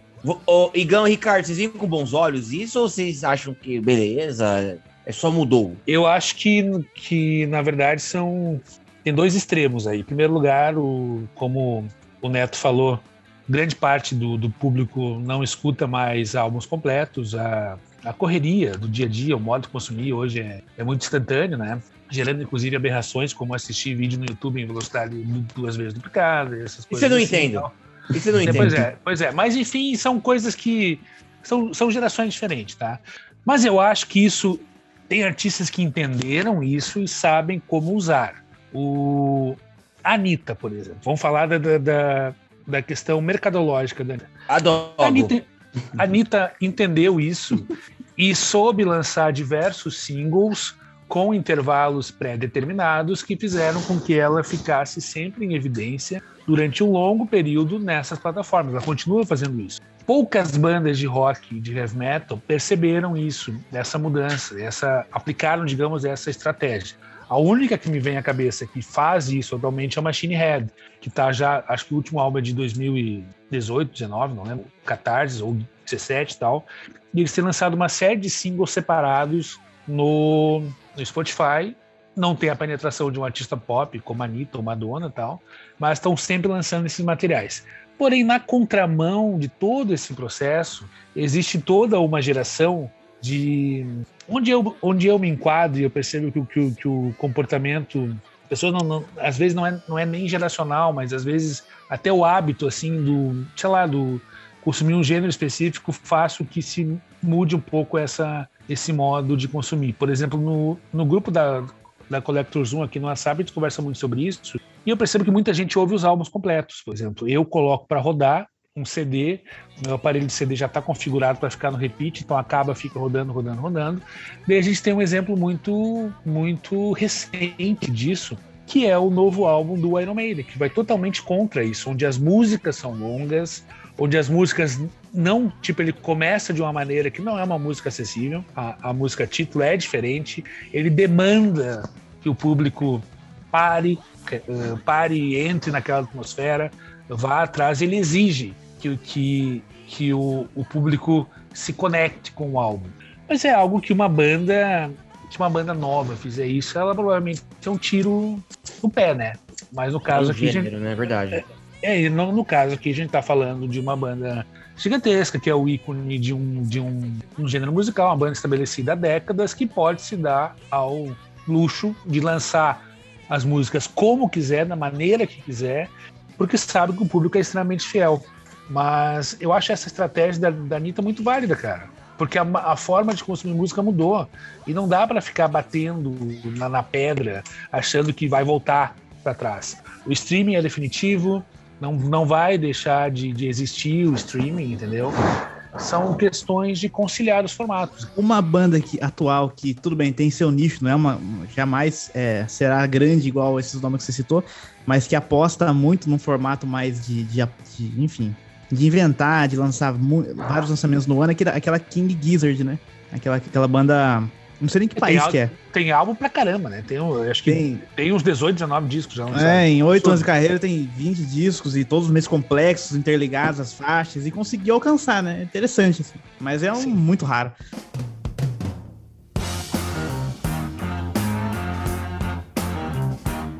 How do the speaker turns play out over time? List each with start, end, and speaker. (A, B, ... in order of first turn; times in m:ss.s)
0:00.2-0:05.8 A
0:05.9-0:27.8 B
0:26.9-0:28.8 A
0:28.4-0:28.7 C
0:28.4-0:44.3 B
0:44.5-0:45.3 A
0:45.0-2:40.7 B
2:40.1-2:41.4 A
2:41.3-3:15.2 B
3:15.8-3:18.1 B
3:18.1-3:35.5 C
3:35.0-3:40.3 B
3:37.5-3:37.8 C
3:39.3-3:47.6 C